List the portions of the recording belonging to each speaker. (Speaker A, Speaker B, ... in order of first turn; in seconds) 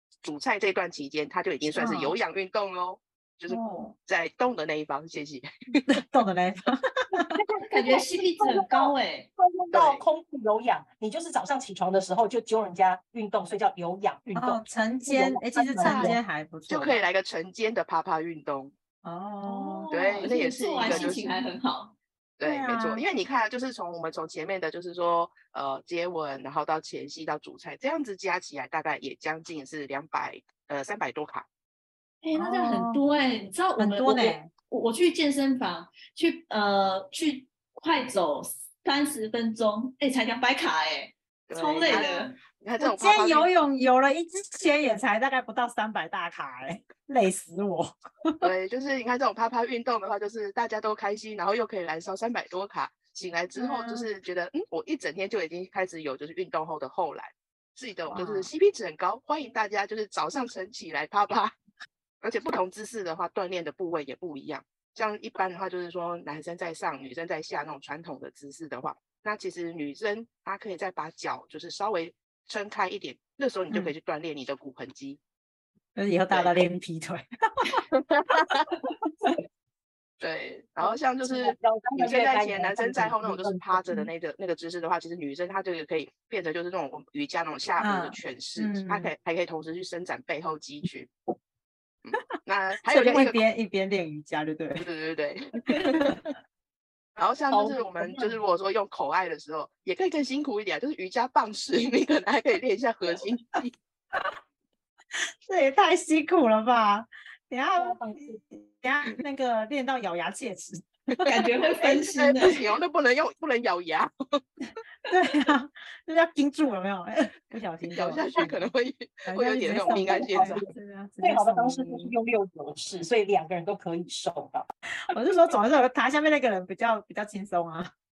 Speaker A: 0.2-5.9, 9.7-10.0, 16.7-18.7, 19.9-21.4, 22.4-31.5, 41.5-43.5, 48.4-61.5, 62.2-75.2, 76.3-76.6, 77.9-78.7, 80.2-91.1, 92.0-93.4, 94.8-96.2, 97.2-103.7, 111.2-114.4, 117.9-120.6
Speaker B: 1.8-2.1, 3.5-3.9, 5.9-7.4, 14.3-17.0, 19.0-19.9, 20.9-21.1, 22.4-23.0, 32.4-33.0, 33.8-34.5, 42.8-48.5, 53.5-54.1, 58.1-58.5, 76.0-77.8, 87.8-89.1, 92.9-94.9, 95.7-96.2, 105.5-111.3, 115.1-118.6, 119.3-122.1, 125.1-127.9
Speaker C: 7.3-16.2, 80.8-84.0, 97.5-98.3, 107.8-108.4, 119.8-124.7
Speaker D: 7.7-9.3, 19.5-22.0, 32.2-42.4, 111.2-112.7